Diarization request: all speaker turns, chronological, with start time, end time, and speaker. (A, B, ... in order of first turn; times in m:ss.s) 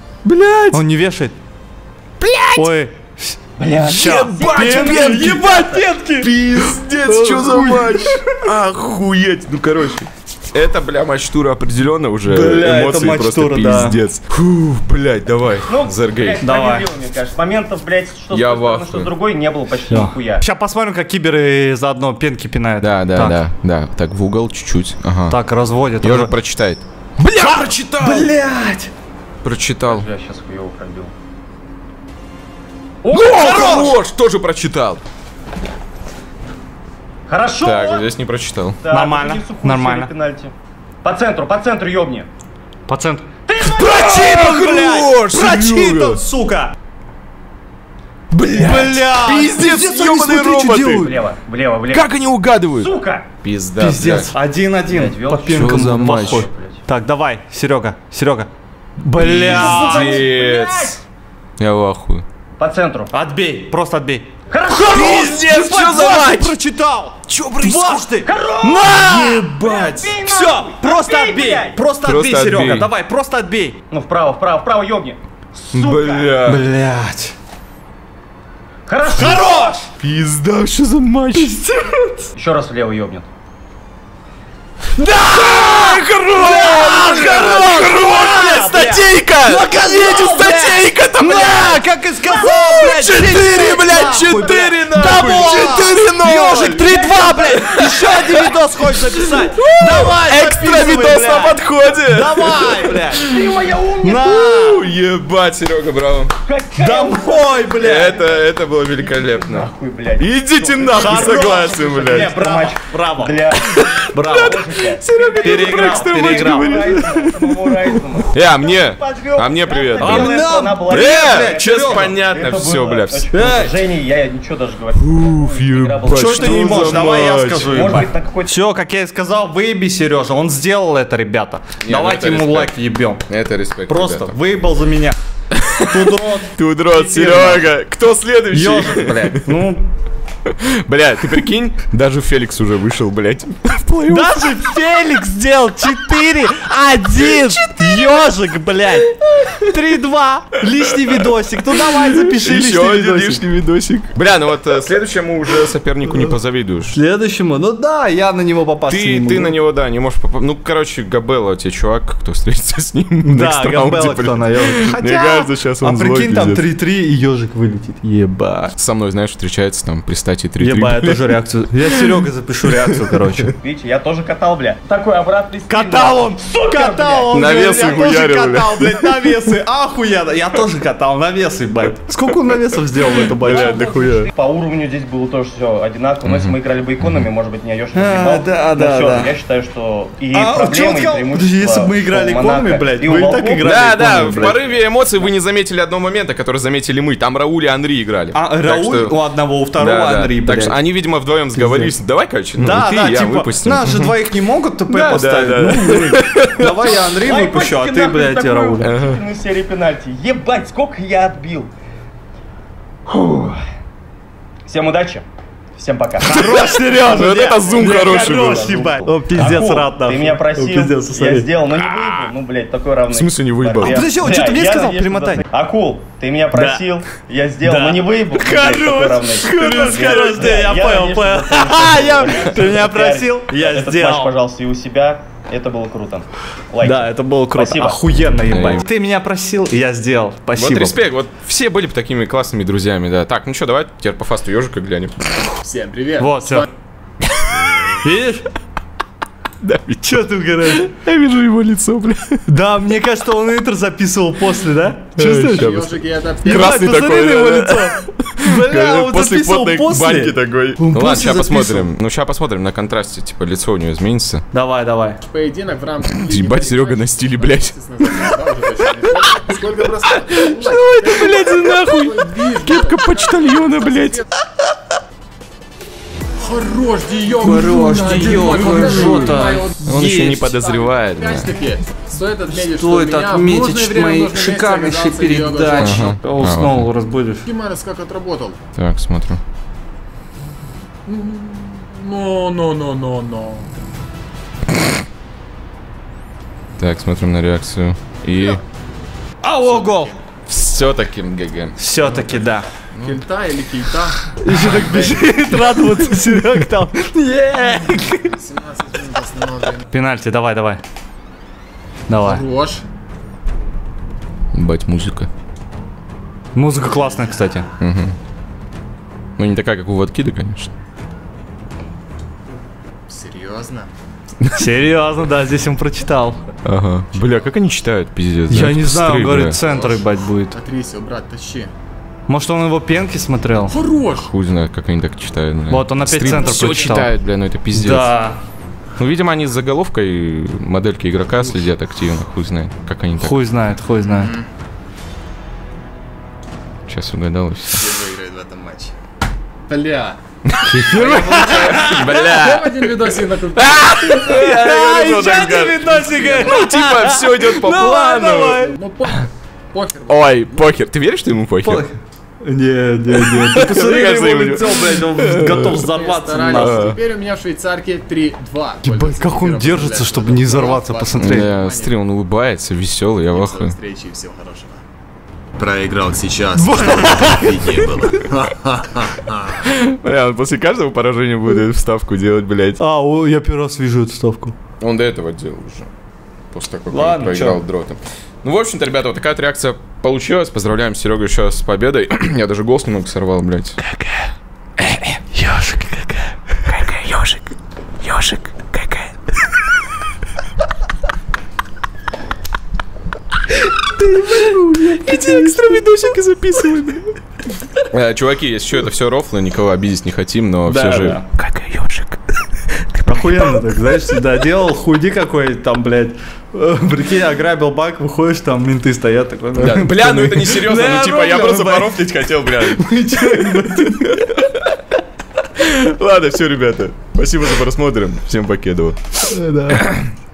0:00.2-0:00.8 A
0:00.7-0:01.3 B
0:02.2-0:02.7 A
0:02.5-0:08.4 B
0:03.6-0:05.9 C
0:03.8-0:05.5 A
0:06.2-0:16.4 A
0:12.3-0:14.0 B
0:15.7-0:20.4 C
0:16.4-0:16.8 B
0:18.3-0:19.1 A
0:19.9-0:23.4 B
0:22.8-0:25.4 A
0:25.3-0:26.3 B
0:26.0-0:28.3 A
0:27.3-0:28.9 B
0:29.4-0:30.0 A
0:29.8-0:31.1 C
0:33.0-0:33.9 C
0:33.1-0:35.0 A
0:33.4-0:33.9 B
0:37.3-0:38.1 C
0:37.6-0:38.8 A
0:38.8-0:40.5 C
0:38.9-0:40.1 B
0:41.0-0:42.3 C
0:42.9-0:43.3 B
0:43.5-0:44.4 C
0:43.6-0:46.2 A
0:43.9-0:46.7 B
0:48.3-0:51.1 A
0:48.5-0:51.1 B
0:51.0-0:52.1 C
0:51.9-0:52.9 A
0:52.8-0:53.2 C
0:53.4-0:54.3 A
0:53.8-1:00.3 B
0:54.8-0:56.8 C
0:55.5-0:56.5 A
0:59.1-1:01.0 A
0:59.2-1:01.0 C
1:01.6-1:02.2 A
1:02.6-1:03.1 C
1:03.1-1:13.8 B
1:04.5-1:05.4 C
1:04.6-1:06.6 A
1:07.3-1:08.1 A
1:08.2-1:11.8 C
1:12.0-1:12.9 A
1:13.9-1:16.3 C
1:15.7-1:16.6 A
1:16.4-1:17.3 B
1:18.9-1:19.8 C
1:19.1-1:19.9 B
1:20.0-1:21.6 A
1:21.3-1:22.3 B
1:22.4-1:23.3 C
1:25.0-1:43.2 B
1:25.0-1:43.6 A
1:37.3-1:37.6 C
1:43.2-1:44.3 C
1:44.0-1:44.8 B
1:44.2-1:46.3 A
1:46.4-2:08.6 C
1:46.8-1:48.1 B
1:47.8-1:52.3 A
1:50.9-1:53.4 B
1:53.6-1:57.2 A
1:54.1-1:57.6 B
1:58.3-2:03.4 A
2:00.0-2:02.1 B
2:03.3-2:03.8 B
2:04.9-2:08.0 A
2:06.1-2:13.2 B
2:11.8-2:14.4 A
2:13.9-2:15.2 B
2:15.6-2:19.5 A
2:15.9-2:17.7 B
2:18.5-2:19.8 B
2:20.5-2:24.5 A
2:24.1-2:33.4 B
2:27.2-2:28.2 A
2:31.7-2:37.0 A
2:36.9-2:39.6 B
2:38.9-2:46.6 A
2:43.2-2:48.7 B
2:48.8-2:51.4 A
2:50.6-2:53.5 B
2:52.8-2:53.5 A
2:53.6-2:58.1 C
2:55.7-3:04.3 B
2:57.3-2:59.4 A
3:03.2-3:04.0 A
3:03.4-3:13.7 C
3:06.2-3:07.3 A
3:07.9-3:09.3 B
3:10.3-3:14.6 B
3:13.6-3:19.2 A
3:18.3-3:20.8 B
3:19.7-3:24.1 A
3:21.5-3:22.0 B
3:22.6-3:28.9 B
3:24.9-3:27.0 A
3:27.1-3:31.7 C
3:28.8-3:29.2 A
3:33.1-3:33.6 C
3:34.6-3:35.2 C
3:35.8-3:58.0 C
3:36.2-3:41.5 B
3:36.4-3:38.9 A
3:43.1-3:44.0 A
3:43.8-3:45.4 B
3:46.5-3:46.9 B
3:47.6-3:54.3 B
3:49.4-3:50.6 A
3:56.8-4:01.0 B
3:58.5-3:58.8 A
4:00.6-4:05.1 A
4:05.6-4:06.7 D
4:06.2-4:06.6 B
4:07.4-4:07.9 A
4:08.0-4:08.5 B
4:09.6-4:12.4 A
4:10.0-4:10.9 B
4:12.5-4:15.8 B
4:15.2-4:24.4 A
4:15.2-4:17.0 D
4:16.4-4:21.9 B
4:24.5-4:25.2 B
4:25.2-4:34.3 D
4:26.1-4:28.2 A
4:30.1-4:34.2 A
4:36.4-4:46.2 D
4:37.4-4:40.4 B
4:39.8-4:41.5 A
4:42.5-4:47.5 B
4:45.8-4:46.9 A
4:47.4-4:48.6 D
4:48.7-4:49.4 A
4:51.0-4:53.7 D
4:56.8-4:58.6 A
4:59.4-5:00.1 B
4:59.6-5:00.2 D
5:00.4-5:02.4 A
5:01.8-5:02.7 B
5:03.0-5:06.2 D
5:04.4-5:08.4 B
5:07.6-5:09.8 D
5:09.9-5:10.8 B
5:12.1-5:12.4 B
5:12.1-5:12.8 D
5:14.5-5:15.3 A
5:16.5-5:17.7 B
5:17.8-5:18.1 A
5:19.4-5:20.7 A
5:23.1-5:23.9 D
5:24.5-5:26.4 B
5:26.6-5:29.6 A
5:27.2-5:27.5 D
5:28.5-5:30.6 B
5:29.6-5:31.7 D
5:32.3-5:33.8 B
5:33.6-5:34.3 D
5:34.1-5:38.1 A
5:35.7-5:37.1 B
5:36.2-5:37.0 D
5:37.7-5:38.4 B
5:39.0-5:43.4 A
5:43.2-5:44.3 B
5:46.8-5:47.9 A
5:47.7-5:48.9 D
5:49.7-5:50.2 D
5:50.5-5:52.7 A
5:50.7-5:52.1 B
5:50.8-5:56.8 D
5:53.5-5:58.7 A
5:54.2-5:58.8 B
5:58.5-6:00.8 D
6:00.1-6:01.8 A
6:01.6-6:07.0 B
6:03.1-6:05.9 A
6:05.7-6:11.9 D
6:06.5-6:07.0 A
6:08.8-6:11.5 B
6:11.2-6:13.8 A
6:13.3-6:14.8 D
6:15.6-6:19.6 D
6:16.6-6:17.8 B
6:19.6-6:22.8 A
6:22.8-6:24.6 B
6:24.8-6:25.9 A
6:26.5-6:33.8 A
6:26.9-6:27.6 B
6:33.8-6:34.2 B
6:35.0-6:36.3 B
6:36.7-6:37.4 A
6:38.0-6:39.1 A
6:43.7-6:47.0 B
6:44.2-6:47.0 A
6:47.9-6:52.2 A
6:50.6-6:51.2 B
6:52.8-6:53.6 A
6:53.0-7:04.4 B
6:59.5-7:04.7 A
7:05.6-7:09.0 A
7:09.2-7:09.9 B